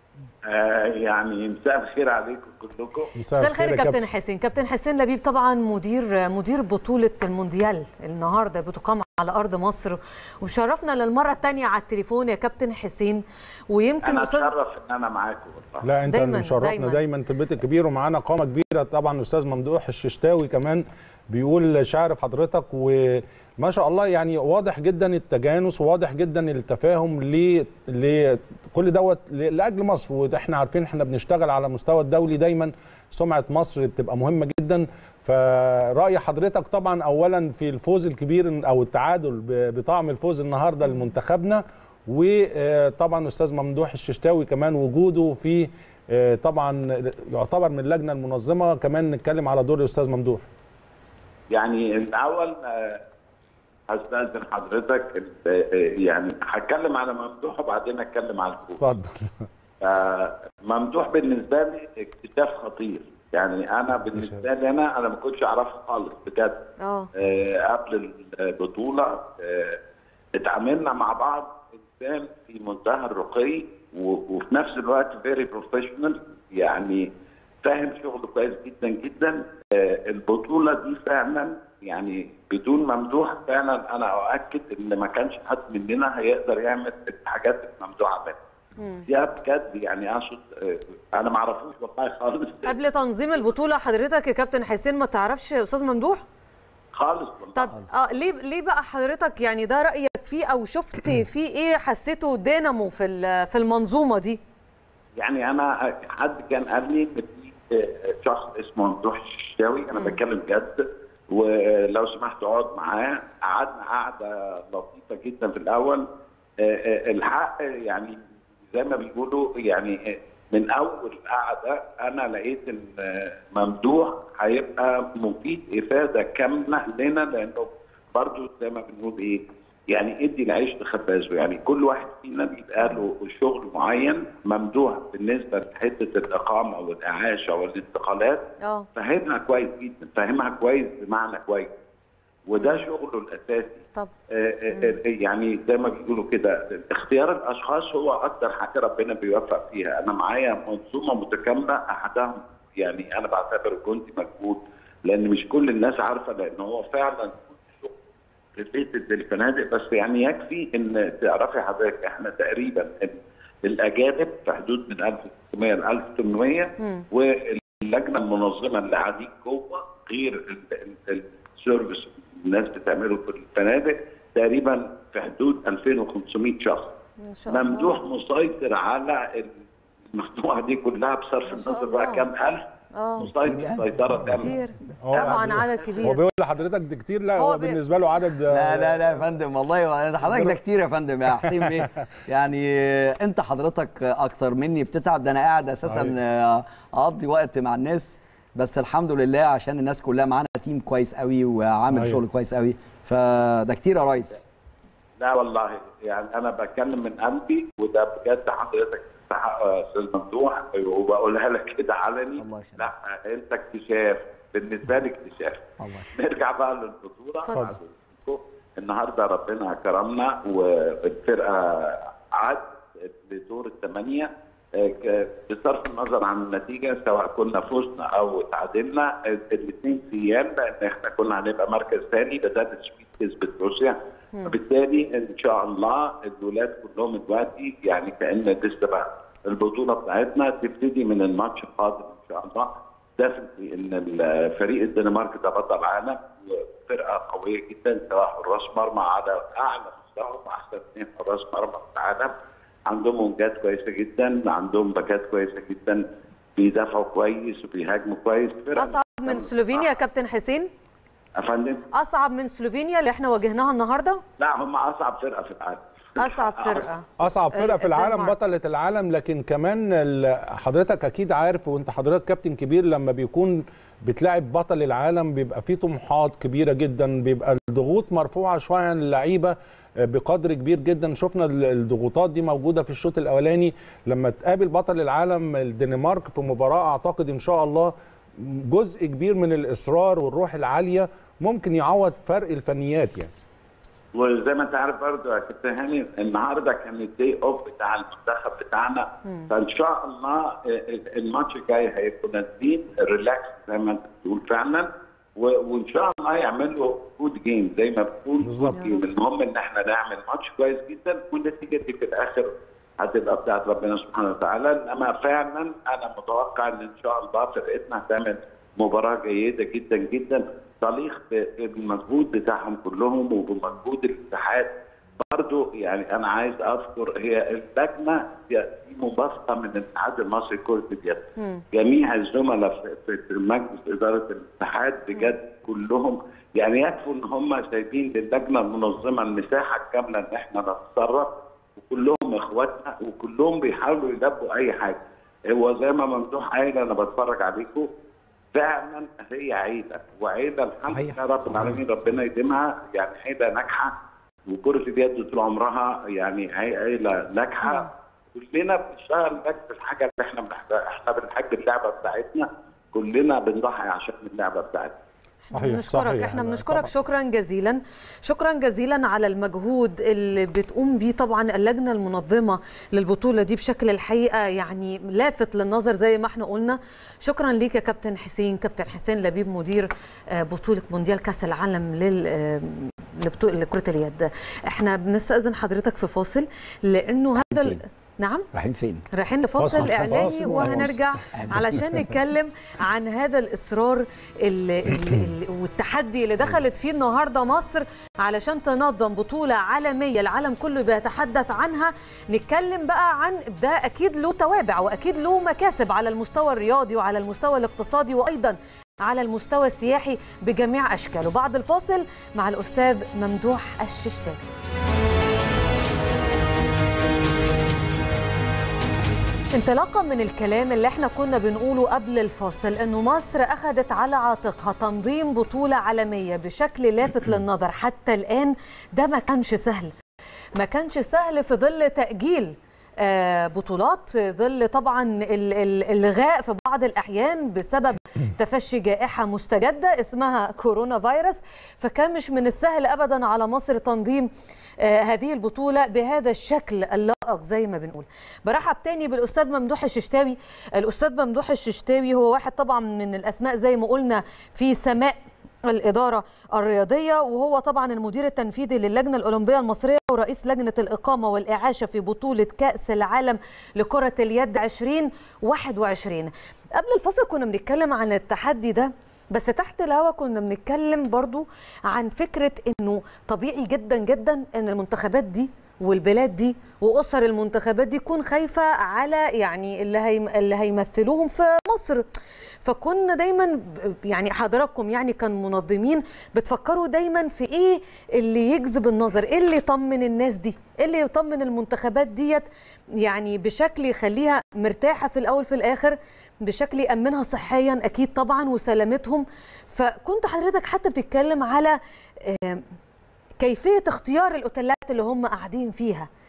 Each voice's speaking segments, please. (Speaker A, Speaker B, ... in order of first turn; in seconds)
Speaker A: 0.5-3.1, 14.0-15.9, 51.5-53.0, 53.9-58.8, 59.8-66.6, 67.2-69.8, 70.4-77.1, 77.6-88.4, 89.1-92.8, 96.9-97.8, 105.2-116.1, 116.6-138.4, 138.9-141.7, 142.5-157.9, 158.6-176.9, 177.5-179.5, 180.1-182.6, 183.2-184.6, 205.2-252.3, 252.9-256.0, 256.6-259.9, 261.4-261.9, 264.4-266.9, 294.1-347.9, 348.5-353.9, 354.5-365.0
Speaker B: 3.2-4.0, 15.8-50.5, 58.8-59.5, 64.1-64.4, 185.0-189.1, 190.3-190.6, 191.4-191.8, 195.8-196.1, 201.9-202.2, 267.2-293.3, 308.4-308.8, 351.5-351.8, 365.5-366.9, 389.6-391.0
Speaker C: 3.4-14.5, 16.1-17.0, 66.8-67.1, 88.8-89.0, 92.7-96.2, 97.5-104.4, 109.9-110.2, 138.6-138.9, 144.7-145.0, 177.2-178.0, 181.5-182.3, 182.9-183.3, 184.3-186.2, 187.4-187.8, 217.5-217.7, 258.8-260.7, 261.9-264.2, 266.2-268.4, 308.7-309.0, 331.4-331.6, 365.5-388.5, 389.1-414.4, 419.5-429.9, 430.6-482.1, 482.6-492.5, 493.0-502.6, 503.4-506.1
Speaker D: 183.3-184.0, 188.5-204.4, 212.4-212.9, 215.8-216.1, 350.9-351.8, 387.4-387.8, 388.5-389.1, 389.7-392.1